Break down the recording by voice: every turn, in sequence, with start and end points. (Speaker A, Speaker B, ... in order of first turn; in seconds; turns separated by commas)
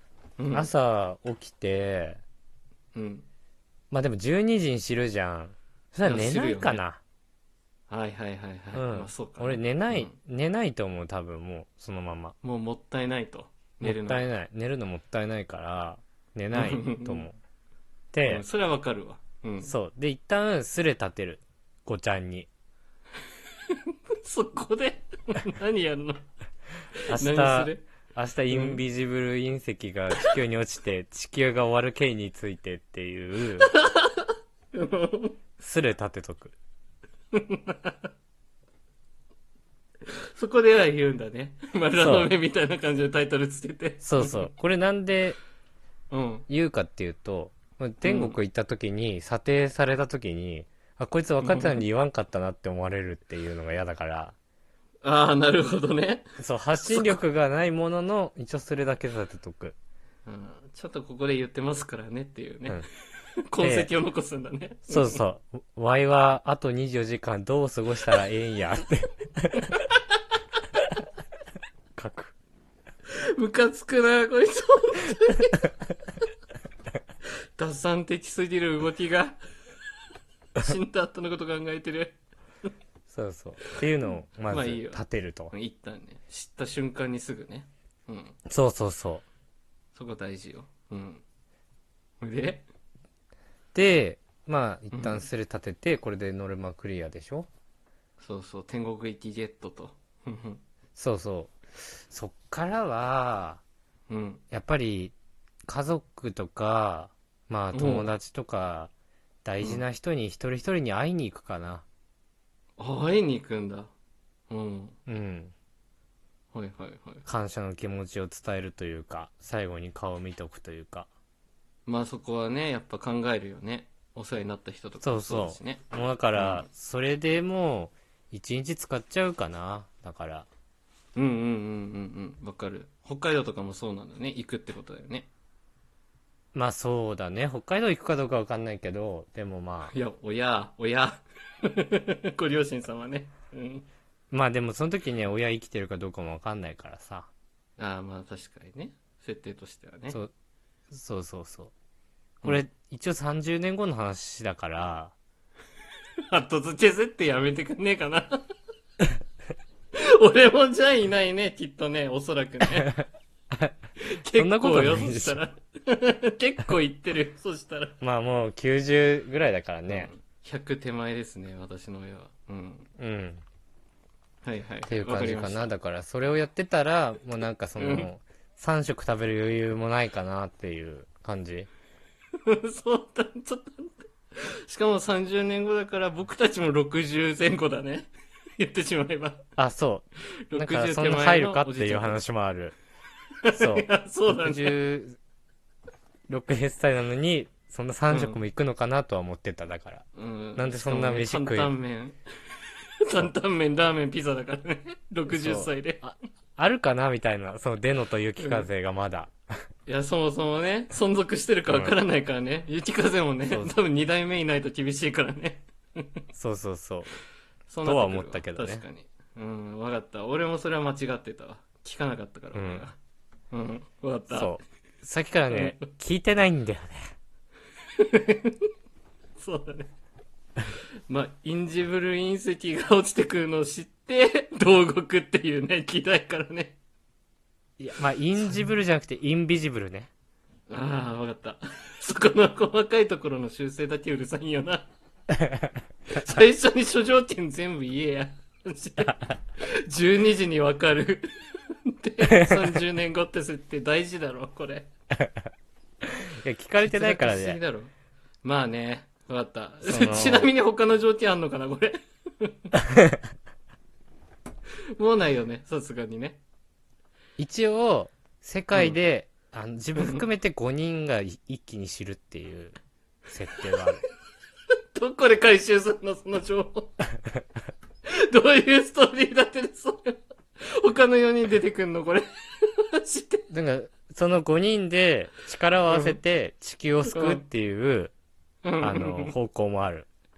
Speaker A: 0.4-0.7, Speaker B: 0.5-2.2, Speaker A: 2.9-3.2, Speaker B: 3.9-7.0, Speaker A: 6.0-6.8, Speaker A: 7.9-10.1, Speaker B: 8.7-12.3, Speaker A: 12.4-14.3, Speaker B: 13.8-17.4, Speaker A: 16.5-17.3, Speaker B: 18.1-18.4, Speaker A: 18.2-19.7, Speaker B: 19.6-22.5, Speaker A: 23.7-26.2, Speaker B: 27.1-33.7, Speaker A: 27.1-27.9, Speaker A: 28.5-28.8, Speaker A: 33.6-35.4, Speaker B: 35.6-36.5, Speaker A: 37.3-38.1, Speaker A: 40.3-44.5, Speaker B: 42.0-42.3, Speaker B: 44.0-45.4, Speaker A: 46.1-46.5, Speaker B: 46.5-54.3, Speaker A: 48.0-48.4, Speaker A: 51.4-51.8, Speaker A: 55.0-56.3, Speaker B: 56.4-59.8, Speaker A: 56.8-57.2, Speaker A: 60.2-62.9, Speaker A: 63.5-65.2, Speaker B: 63.6-63.9, Speaker B: 64.9-69.7, Speaker B: 72.0-72.3, Speaker A: 73.3-75.7, Speaker A: 77.6-79.4, Speaker A: 80.5-82.2, Speaker B: 83.1-85.5, Speaker A: 84.5-88.4, Speaker B: 88.5-89.2, Speaker A: 90.0-91.2, Speaker A: 92.2-92.7, Speaker B: 93.7-97.5, Speaker A: 94.9-95.2, Speaker A: 98.2-100.6, Speaker B: 101.0-103.6, Speaker A: 104.1-104.4, Speaker B: 104.5-105.1, Speaker B: 105.7-108.9, Speaker A: 107.7-108.1, Speaker B: 109.4-111.8, Speaker A: 112.8-113.9, Speaker A: 114.5-115.0, Speaker B: 115.1-115.5, Speaker A: 116.5-117.2, Speaker B: 117.2-121.1, Speaker A: 121.8-125.8, Speaker B: 125.0-130.5, Speaker A: 126.3-126.7, Speaker A: 131.2-135.3, Speaker B: 136.5-139.9, Speaker A: 139.9-143.9, Speaker B: 144.3-147.3, Speaker A: 147.8-150.2, Speaker B: 150.9-151.7, Speaker B: 152.4-155.1, Speaker A: 156.3-158.4, Speaker A: 159.9-163.0, Speaker A: 164.1-167.9, Speaker B: 164.3-165.4, Speaker B: 168.0-170.1, Speaker A: 169.9-172.9, Speaker B: 173.0-173.4, Speaker A: 174.4-175.7, Speaker B: 174.9-181.7, Speaker A: 177.8-178.1, Speaker A: 182.4-184.1, Speaker A: 184.7-189.4, Speaker B: 189.6-192.8, Speaker A: 190.5-192.2, Speaker A: 193.4-194.8, Speaker B: 193.5-195.2, Speaker B: 196.3-200.0, Speaker A: 198.1-198.4, Speaker A: 200.1-202.2, Speaker B: 200.6-201.7, Speaker A: 203.1-206.1, Speaker B: 205.3-209.3, Speaker A: 208.4-208.7, Speaker A: 209.9-216.2, Speaker B: 211.7-211.9, Speaker B: 216.3-217.1, Speaker A: 217.7-222.9, Speaker B: 217.8-218.8, Speaker B: 222.5-222.9, Speaker A: 223.5-224.6, Speaker B: 224.3-227.0, Speaker A: 225.5-225.9, Speaker A: 228.0-228.7, Speaker A: 229.4-229.9, Speaker A: 231.1-236.8, Speaker B: 237.8-240.1, Speaker A: 240.7-244.9, Speaker A: 246.1-251.3, Speaker A: 251.8-254.9, Speaker B: 252.3-252.8, Speaker B: 256.4-257.6, Speaker A: 256.8-257.9, Speaker A: 258.4-262.7, Speaker B: 259.8-260.5, Speaker A: 265.0-266.4, Speaker B: 267.4-272.8, Speaker A: 270.0-270.2, Speaker B: 273.3-274.0, Speaker A: 274.9-277.0, Speaker A: 278.3-280.2, Speaker A: 280.8-283.4, Speaker B: 283.5-288.1, Speaker A: 285.9-286.2, Speaker A: 287.1-287.4, Speaker A: 288.6-289.3, Speaker B: 288.8-290.1